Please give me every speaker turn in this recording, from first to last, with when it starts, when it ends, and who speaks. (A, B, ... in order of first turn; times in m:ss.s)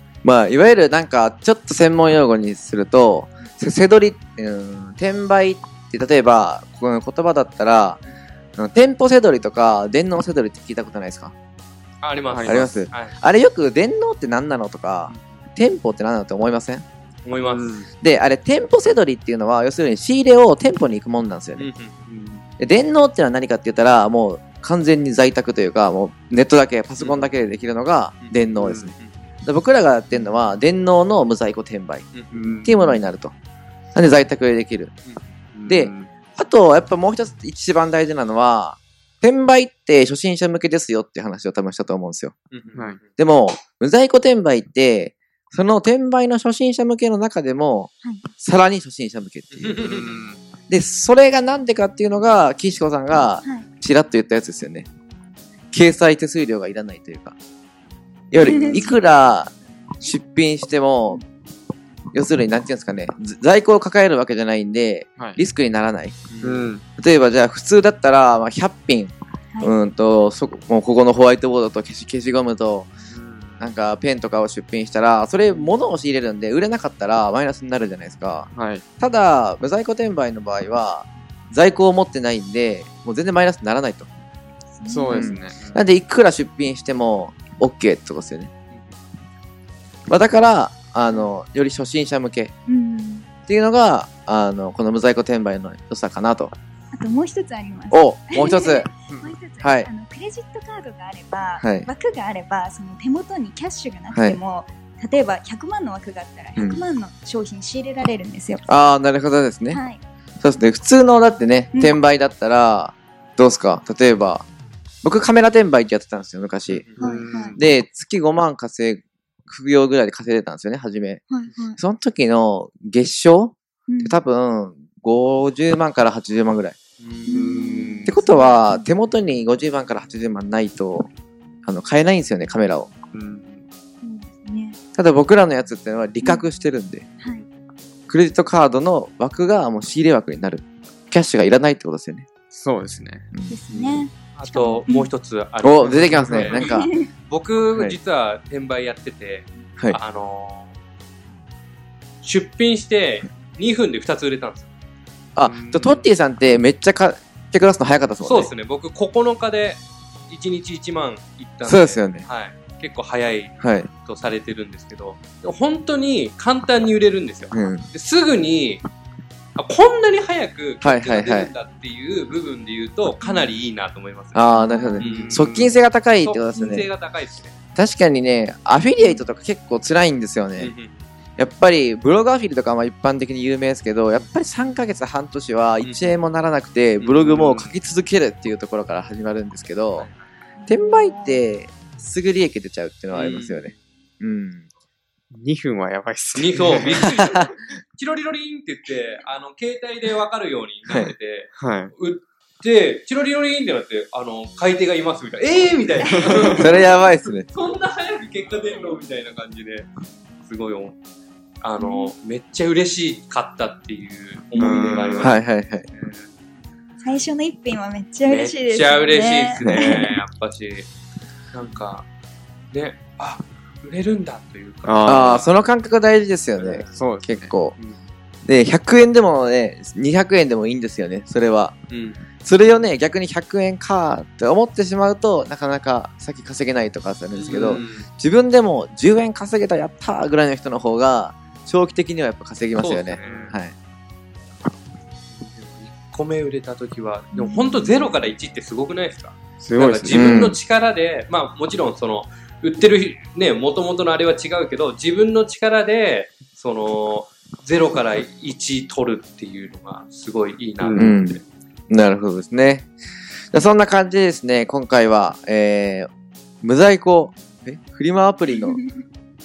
0:00.2-0:08.0 A
0:08.6-0:11.3 A
0:12.0-0:13.1 B
0:12.3-0:12.7 C
0:12.4-0:16.8 A
0:17.2-0:17.8 B
0:17.5-0:17.9 C
0:18.0-0:21.6 A
0:21.6-0:22.0 B
0:22.1-0:22.4 C
0:22.6-0:32.1 A
0:27.0-0:27.3 B
0:28.2-0:29.1 B
0:28.6-0:28.9 C
0:30.1-0:30.4 D
0:32.1-0:32.4 B
0:32.3-0:32.8 C
0:32.6-0:33.3 A
0:33.9-0:34.9 A
0:35.5-0:36.1 C
0:35.7-0:42.3 A
0:42.5-0:43.1 B
0:43.2-0:49.8 A
0:48.0-0:48.3 D
0:49.5-0:50.2 B
0:49.8-0:50.4 C
0:50.7-0:54.9 A
0:55.7-0:57.3 A
0:58.3-1:01.2 A
0:58.4-0:59.0 D
1:02.1-1:06.2 A
1:06.3-1:06.7 B
1:06.4-1:06.8 C
1:07.0-1:12.9 A
1:13.1-1:13.7 C
1:13.6-1:24.1 A
1:18.5-1:18.8 C
1:24.7-1:25.4 D
1:24.9-1:25.8 C
1:25.1-1:28.5 A
1:28.7-1:29.0 B
1:30.1-1:32.5 A
1:32.7-1:33.2 D
1:33.5-1:36.5 A
1:36.9-1:48.6 D
1:37.9-1:38.9 A
1:39.6-1:39.9 A
1:41.6-1:41.9 A
1:44.1-1:44.4 A
1:46.6-1:46.8 A
1:48.6-1:49.8 A
1:49.7-1:50.0 D
1:50.4-1:54.4 A
1:55.0-1:56.9 A
1:56.7-1:57.1 B
1:57.0-1:57.5 D
1:57.0-1:57.6 C
1:57.6-2:06.7 A
2:01.3-2:01.8 D
2:03.9-2:04.2 D
2:07.0-2:07.4 B
2:07.3-2:08.9 D
2:07.3-2:08.1 C
2:08.0-2:11.1 A
2:11.6-2:12.9 A
2:13.1-2:13.6 C
2:14.0-2:14.8 D
2:15.0-2:17.0 A
2:18.1-2:22.3 A
2:22.5-2:23.2 C
2:23.3-2:23.6 A
2:23.5-2:25.1 D
2:24.4-2:26.7 B
2:25.6-2:26.9 A
2:25.9-2:26.5 C
2:26.6-2:27.0 D
2:27.3-2:30.7 B
2:32.2-2:34.7 B
2:35.4-2:38.5 A
2:35.4-2:36.1 C
2:38.2-2:48.8 B
2:41.6-2:42.2 A
2:43.6-2:43.9 A
2:47.5-2:47.9 A
2:49.6-2:54.5 B
2:50.8-2:51.5 A
2:53.2-2:53.5 D
2:54.3-2:56.9 A
2:54.5-2:55.0 D
2:55.0-2:55.4 B
2:55.0-2:55.7 C
2:56.2-2:57.6 B
2:57.7-3:00.7 A
2:59.0-2:59.2 D
3:00.6-3:01.0 B
3:01.4-3:10.1 A
3:05.8-3:06.2 B
3:07.0-3:07.8 B
3:10.6-3:11.4 D
3:10.7-3:14.6 A
3:13.1-3:13.7 B
3:15.3-3:17.0 C
3:16.3-3:29.9 B
3:17.0-3:17.5 A
3:20.9-3:21.1 A
3:21.6-3:21.9 C
3:26.5-3:27.4 A
3:30.4-3:31.0 B
3:31.6-3:36.3 B
3:31.8-3:32.1 D
3:34.6-3:35.3 C
3:35.0-3:35.8 A
3:37.0-3:40.2 D
3:38.2-3:40.9 B
3:41.5-3:42.1 B
3:42.7-3:45.4 B
3:44.8-3:45.4 C
3:45.0-3:47.8 A
3:46.6-3:47.0 B
3:47.0-3:47.5 C
3:48.4-3:51.7 A
3:51.9-3:52.8 B
3:52.4-4:03.7 A
3:57.3-3:58.1 B
4:02.8-4:03.5 B
4:03.2-4:03.6 C
4:05.3-4:21.4 B
4:07.3-4:07.9 D
4:09.6-4:10.3 C
4:10.1-4:10.6 A
4:20.8-4:21.1 C
4:21.0-4:21.4 A
4:21.9-4:22.9 A
4:23.5-4:26.1 A
4:26.6-4:28.8 A